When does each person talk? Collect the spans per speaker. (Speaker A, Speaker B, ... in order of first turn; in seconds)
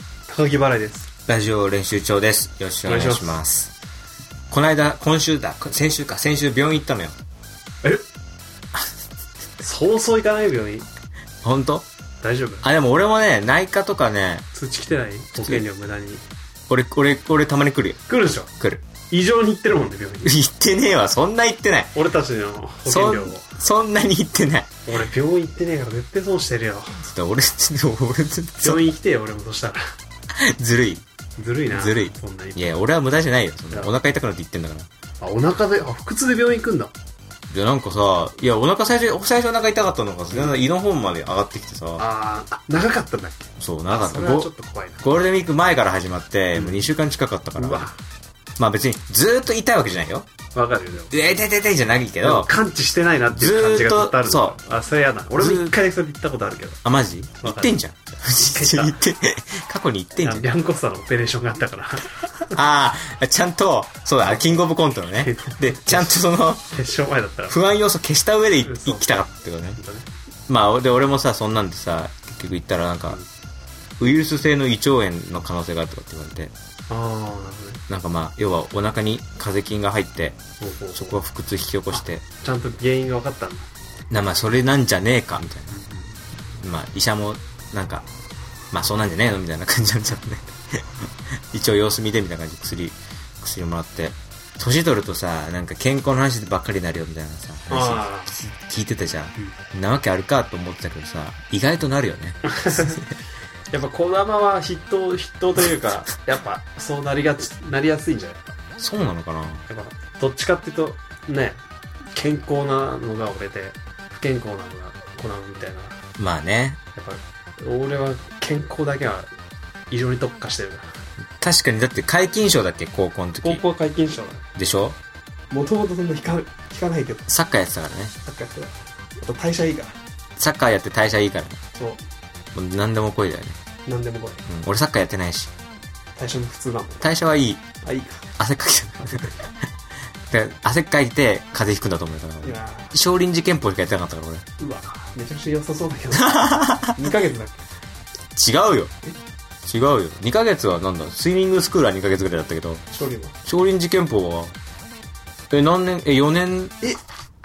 Speaker A: 0.3-1.1, 2.8-3.4, 9.6-10.8, 12.2-12.6, 14.5-16.2, 18.1-18.5, 19.1-20.4, 21.9-23.5, 24.9-27.1, 28.6-29.8, 31.4-32.6, 35.2-36.9, 40.3-40.5, 42.0-45.0, 46.5-46.9, 47.5-48.0, 50.5-51.1, 52.2-56.8, 57.4-59.0, 60.2-62.6, 65.2-67.6, 68.6-69.2, 69.8-70.1, 76.9-77.8, 80.6-81.2, 81.9-83.7, 85.7-86.2, 97.7-98.3, 102.4-103.1, 103.7-108.6, 109.7-111.6, 112.1-116.0, 116.9-119.3, 119.9-120.9, 123.4-124.4, 125.5-127.3, 128.2-129.9, 131.7-132.0, 133.8-134.4, 136.2-137.1, 137.8-138.2, 139.0-139.3, 142.4-142.9, 144.6-147.6, 152.9-153.3
Speaker B: 1.3-3.7, 4.5-7.2, 11.4-11.8, 12.6-14.4, 15.3-15.6, 16.7-18.0, 18.6-18.8, 20.2-21.9, 22.9-24.7, 27.0-28.9, 30.3-31.0, 31.7-34.9, 37.5-42.0, 43.6-44.5, 45.0-47.9, 48.6-50.3, 51.1-52.5, 53.3-54.5, 55.4-55.7, 56.8-60.5, 62.5-66.8, 67.5-69.8, 70.5-73.2, 74.0-76.5, 77.9-80.4, 80.9-82.2, 84.1-85.8, 86.6-88.0, 88.7-103.0, 108.8-109.6, 116.2-116.8, 121.4-123.6, 124.5-125.0, 127.3-128.1, 130.4-131.6, 132.5-133.6, 134.5-135.5, 137.0-137.6, 138.4-139.3, 140.3-144.4, 146.2-147.0, 148.3-148.9, 149.7-152.8, 153.4-154.6, 155.5-156.7